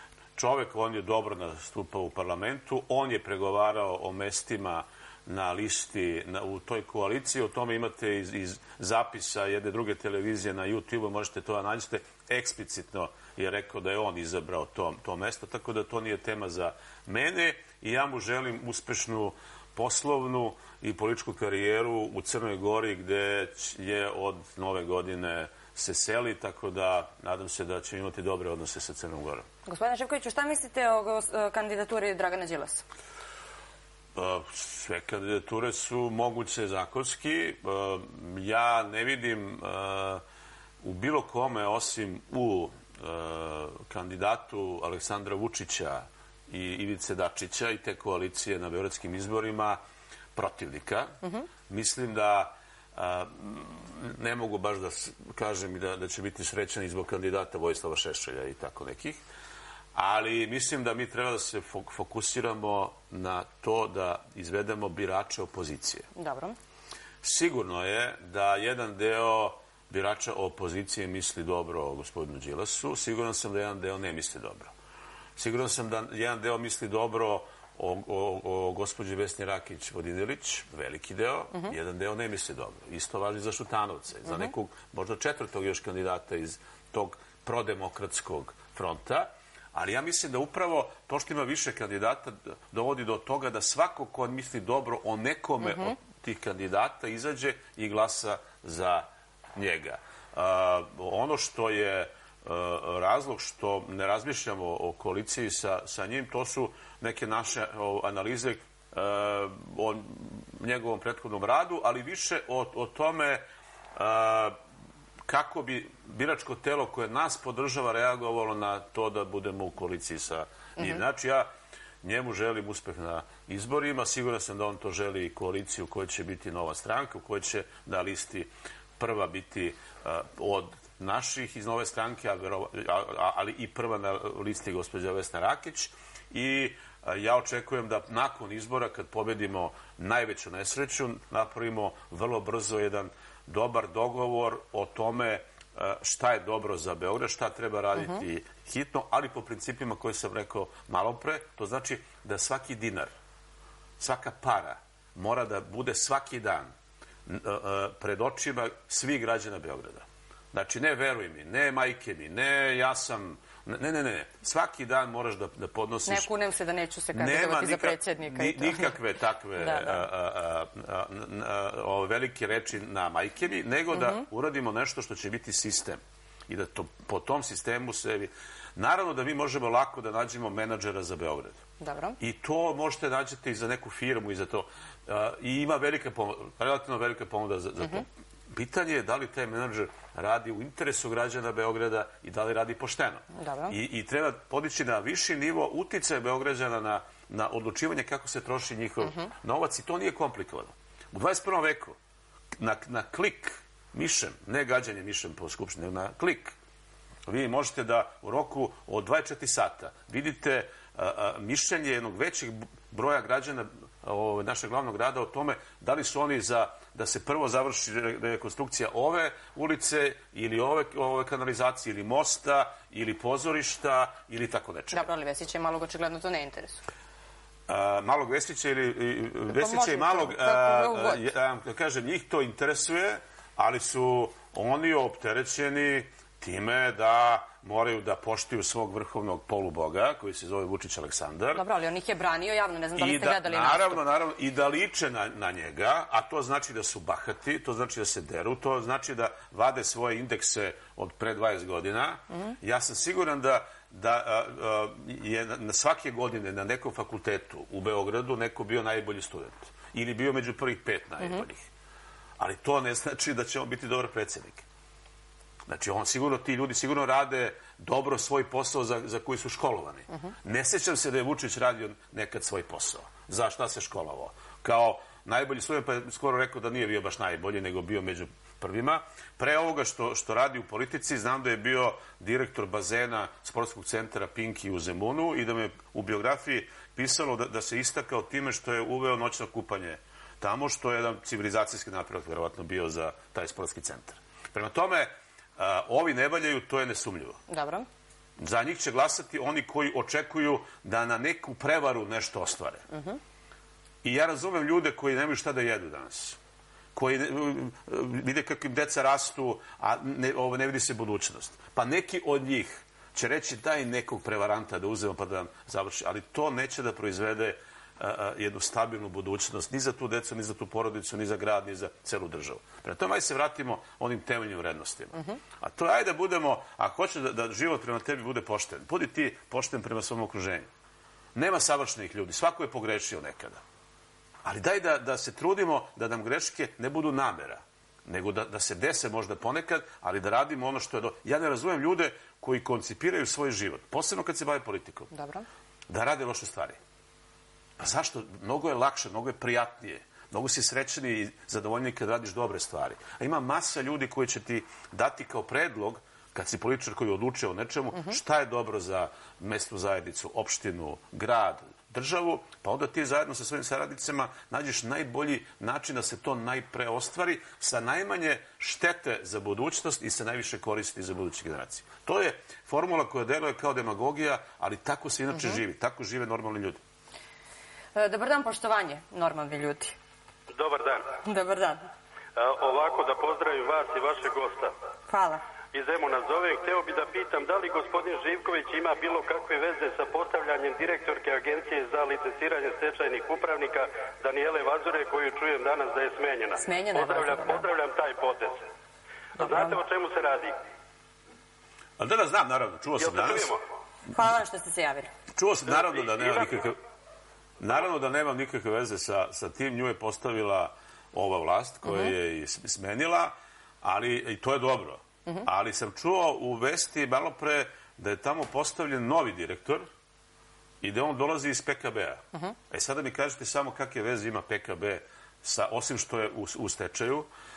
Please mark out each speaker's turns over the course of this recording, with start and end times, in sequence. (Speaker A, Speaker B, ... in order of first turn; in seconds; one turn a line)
Speaker A: 0.3-29.4
Speaker B: 29.6-32.8
Speaker A: 34.1-40.2
Speaker A: 40.8-49.8
Speaker A: 50.4-51.1
Speaker B: 51.2-51.5
Speaker A: 51.7-59.2
Speaker A: 59.9-66.1
Speaker B: 66.1-66.5
Speaker A: 67.2-74.7
Speaker A: 75.3-113.4
Speaker A: 114.0-114.5
Speaker A: 115.2-121.5
Speaker A: 122.0-153.1
Speaker A: 154.0-156.7
Speaker A: 157.2-166.3
Speaker B: 166.1-168.9
Speaker A: 167.1-181.6
Speaker B: 169.6-170.0
Speaker B: 173.9-174.2
Speaker B: 181.8-182.2
Speaker A: 182.2-202.0
Speaker B: 193.3-193.8
Speaker B: 199.0-199.3
Speaker A: 202.6-206.5
Speaker A: 207.2-225.1
Speaker B: 224.9-226.8
Speaker A: 227.7-241.6
Speaker B: 229.5-231.2
Speaker B: 241.5-244.0
Speaker A: 243.0-261.7
Speaker A: 262.4-264.6
Speaker A: 265.7-297.4
Speaker B: 297.5-297.9
Speaker A: 298.4-302.8
Speaker B: 302.9-303.2
Speaker A: 304.0-306.4
Speaker A: 306.9-330.7
Speaker A: 331.3-333.6
Speaker A: 334.4-345.1
Speaker B: 345.1-345.4
Speaker A: 345.9-346.8
Speaker A: 347.8-376.8
Speaker B: 377.9-379.9
Speaker C: 380.5-381.1
Speaker B: 381.2-381.9
Speaker C: 382.4-384.7
Speaker B: 385.1-385.4
Speaker C: 385.7-398.6
Speaker B: 396.6-397.7
Speaker B: 399.4-399.8
Speaker C: 399.4-400.5
Speaker A: 402.0-403.5
Speaker C: 403.0-403.6
Speaker B: 404.1-405.1
Speaker A: 405.3-406.8
Speaker A: 407.6-419.9
Speaker B: 411.9-412.1
Speaker A: 420.8-427.3